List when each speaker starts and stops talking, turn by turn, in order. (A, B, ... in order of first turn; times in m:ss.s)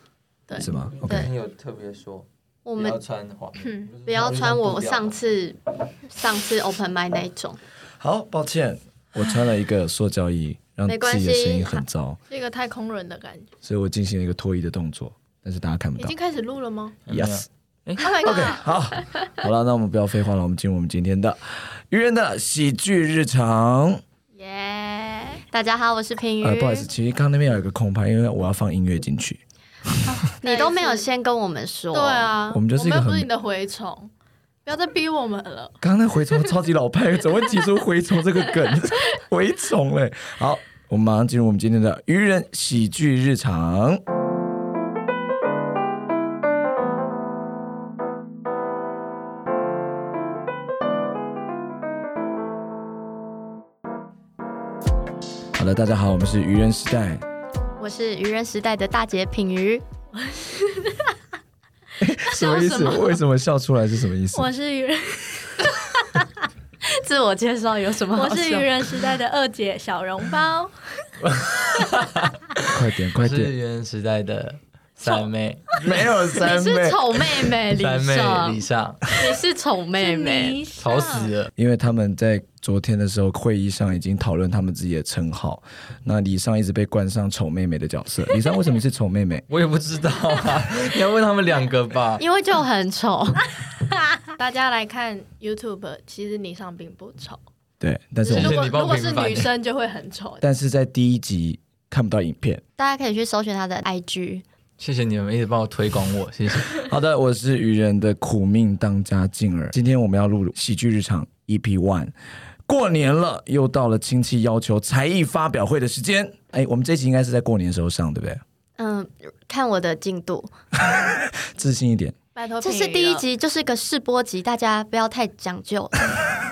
0:00.6-0:01.3 A
0:00.9-0:05.2 B
0:01.1-0:01.3 C
0:02.6-0:03.0 C
0:03.6-0:03.9 D
0:04.1-0:05.6 C
0:06.1-0:07.6 C
0:08.0-0:12.2 A
0:10.9-0:11.8 C
0:12.3-0:13.5 D
0:13.6-0:16.1 A
0:16.0-0:17.0 D
0:17.1-0:18.1 B
0:17.1-0:17.5 A
0:18.0-0:18.7 D
0:18.2-0:24.0 A
0:24.4-0:25.4 D
0:25.5-0:26.9 C
0:26.4-0:29.4 A
0:30.1-0:32.4 C
0:30.4-0:31.1 D
0:31.9-0:34.1 D
0:32.5-0:33.3 A
0:34.6-0:35.8 D
0:35.8-0:44.0 A
0:55.6-0:57.2 A
0:57.8-0:59.8 C
1:00.1-1:01.2 D
1:02.0-1:04.5 A
1:02.3-1:03.2 D
1:04.3-1:06.2 D
1:06.9-1:08.8 C
1:08.2-1:11.1 D
1:11.2-1:12.3 B
1:12.6-1:13.5 A
1:13.2-1:16.0 B
1:15.8-1:17.5 A
1:16.4-1:20.6 C
1:17.7-1:19.0 B
1:20.0-1:21.3 D
1:20.8-1:21.5 B
1:21.6-1:29.4 A
1:29.5-1:32.2 B
1:32.2-1:33.6 C
1:34.3-1:37.4 D
1:37.8-1:38.6 A
1:38.2-1:40.4 D
1:38.3-1:39.5 B
1:40.4-1:42.6 A
1:42.8-1:44.4 C
1:44.8-1:46.9 B
1:46.8-1:52.1 A
1:52.7-1:58.4 A
1:58.8-2:00.5 C
2:00.8-2:02.2 A
2:02.4-2:03.2 D
2:02.6-2:06.2 C